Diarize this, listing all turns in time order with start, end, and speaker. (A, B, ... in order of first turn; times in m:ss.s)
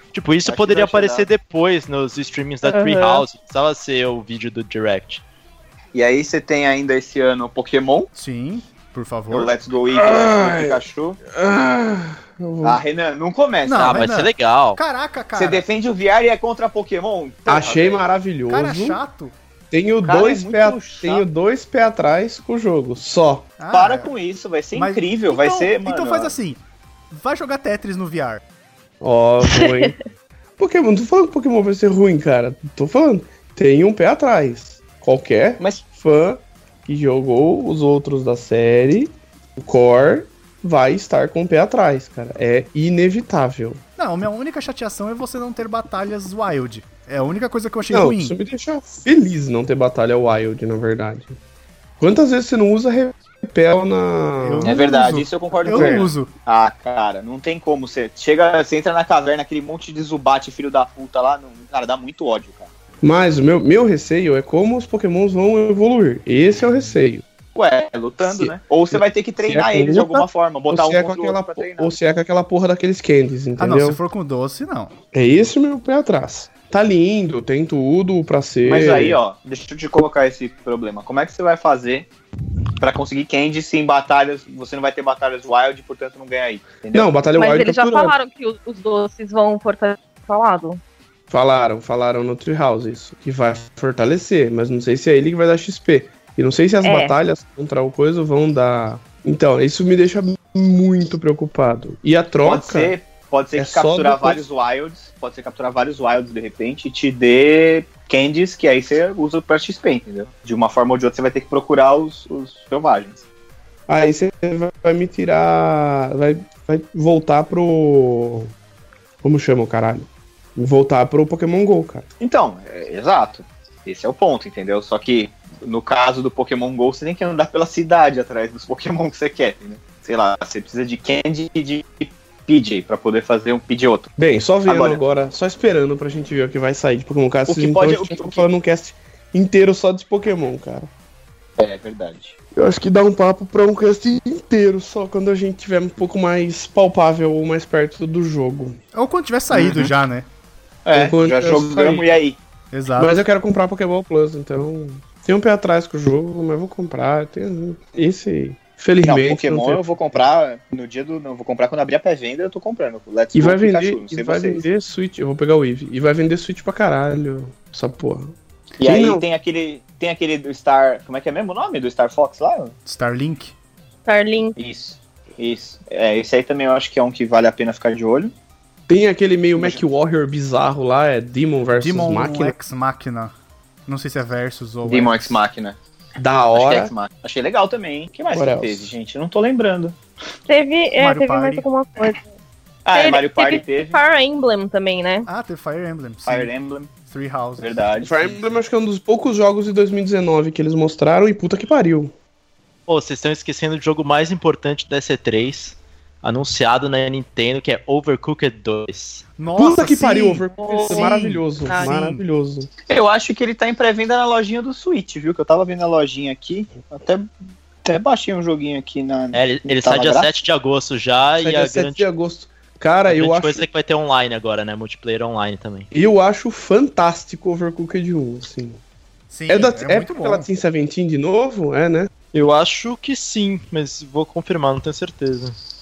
0:00.1-0:05.2 A
0:00.4-0:01.3 B
0:02.6-0:03.3 C
0:05.9-0:08.1 B
0:08.1-0:09.5 D
0:09.3-0:11.2 B
0:10.1-0:10.8 E
0:11.3-0:12.8 E
0:12.6-0:14.0 B
0:13.6-0:15.6 D
0:13.8-0:14.8 A
0:15.4-0:18.1 B
0:17.4-0:19.0 E
0:18.5-0:19.4 D
0:19.7-0:23.6 E
0:20.0-0:21.3 B
0:23.6-0:24.2 D
0:23.7-0:26.4 B
0:24.7-0:28.4 D
0:29.0-0:30.0 E
0:29.4-0:30.0 C
0:30.6-0:43.8 E
0:44.0-0:48.4 D
0:47.9-0:51.4 E
0:52.0-0:55.0 E
0:54.4-0:56.3 D
0:54.6-1:02.7 B
0:55.6-0:56.1 E
1:03.0-1:07.2 E
1:07.6-1:11.9 B
1:08.2-1:14.0 E
1:13.6-1:15.0 D
1:15.1-1:19.2 E
1:18.6-1:22.1 B
1:22.8-1:27.1 B
1:26.9-1:28.2 E
1:27.4-1:30.8 C
1:31.3-1:43.0 E
1:36.8-1:37.2 C
1:42.4-1:53.2 B
1:43.6-1:44.4 E
1:53.9-1:58.5 E
1:59.2-2:02.1 E
2:02.2-2:14.1 B
2:14.2-2:20.9 E
2:14.6-2:15.0 B
2:17.4-2:18.4 B
2:21.6-2:22.4 B
2:22.5-2:28.8 E
2:28.9-2:30.3 D
2:29.5-2:29.9 B
2:30.8-2:32.4 B
2:30.9-2:32.1 E
2:32.7-2:33.2 D
2:33.0-2:40.2 E
2:39.0-2:44.7 B
2:43.3-2:49.2 E
2:48.8-2:52.7 B
2:52.9-2:53.5 D
2:54.1-2:54.6 C
2:54.6-2:58.3 B
2:58.9-3:02.6 E
2:59.6-2:59.8 B
3:01.8-3:03.3 D
3:03.9-3:05.4 D
3:04.9-3:05.8 B
3:06.2-3:06.9 E
3:06.5-3:10.0 B
3:08.3-3:08.9 E
3:10.5-3:12.3 C
3:11.0-3:11.7 D
3:12.8-3:14.0 B
3:12.9-3:15.3 C
3:15.3-3:16.5 D
3:16.2-3:16.9 B
3:17.0-3:17.9 D
3:17.6-3:18.4 B
3:18.0-3:22.1 E
3:22.9-3:29.3 A
3:29.4-3:30.5 D
3:29.6-3:32.7 E
3:30.6-3:31.9 C
3:31.7-3:32.2 D
3:32.9-3:37.3 B
3:37.8-3:40.4 B
3:39.3-3:42.1 A
3:41.4-3:43.7 E
3:43.1-3:45.9 A
3:45.9-3:48.8 E
3:49.3-3:50.5 D
3:49.5-3:52.1 E
3:52.3-3:55.6 A